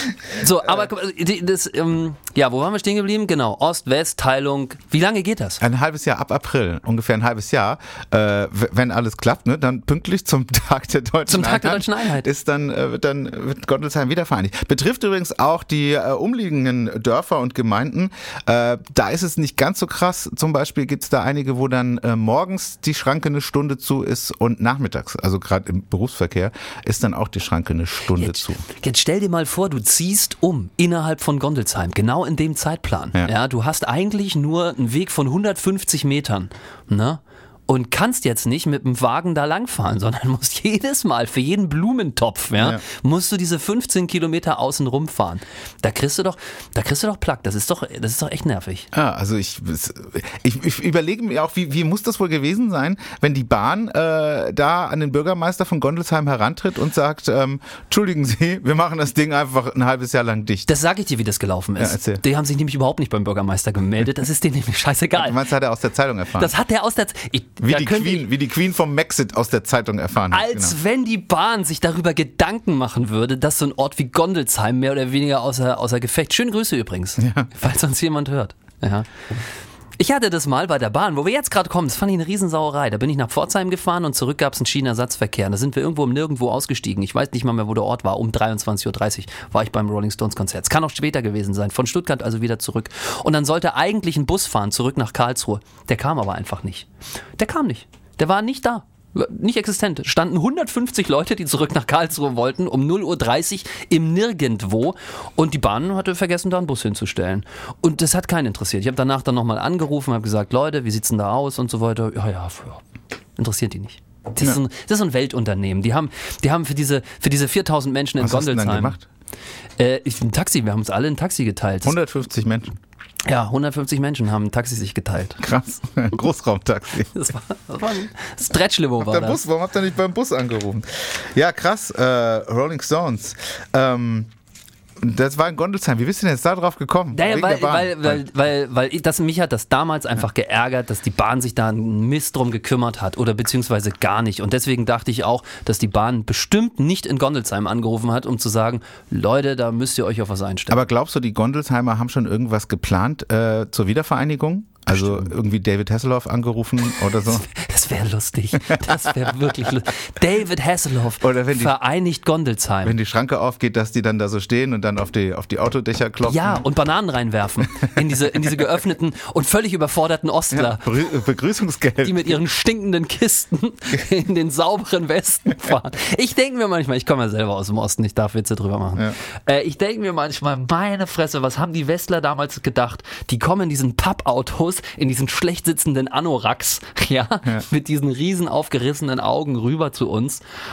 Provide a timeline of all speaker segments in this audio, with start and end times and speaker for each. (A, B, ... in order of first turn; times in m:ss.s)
0:00.3-0:05.6 A
0:05.6-0:28.6 B
0:11.3-0:12.3 A
0:28.2-0:48.9 A
0:48.9-1:00.7 B
1:00.7-1:05.4 A
1:01.8-1:02.2 B
1:05.2-1:06.5 B
1:06.4-1:08.2 A
1:07.6-1:10.7 B
1:10.3-1:19.2 A
1:17.2-1:17.5 B
1:20.0-1:52.8 A
1:53.4-1:59.0 A
1:58.2-1:59.1 B
1:59.8-2:02.0 A
2:01.8-2:02.7 B
2:03.2-2:05.4 A
2:05.4-2:07.1 B
2:07.1-2:09.4 A
2:09.0-2:14.3 B
2:15.0-2:18.2 B
2:17.1-2:30.8 A
2:30.7-2:37.5 B
2:34.9-2:35.3 A
2:37.2-2:43.0 A
2:38.7-2:39.1 B
2:41.2-2:41.8 B
2:42.8-2:46.6 B
2:46.2-2:50.9 A
2:50.5-2:52.4 B
2:52.0-3:10.4 A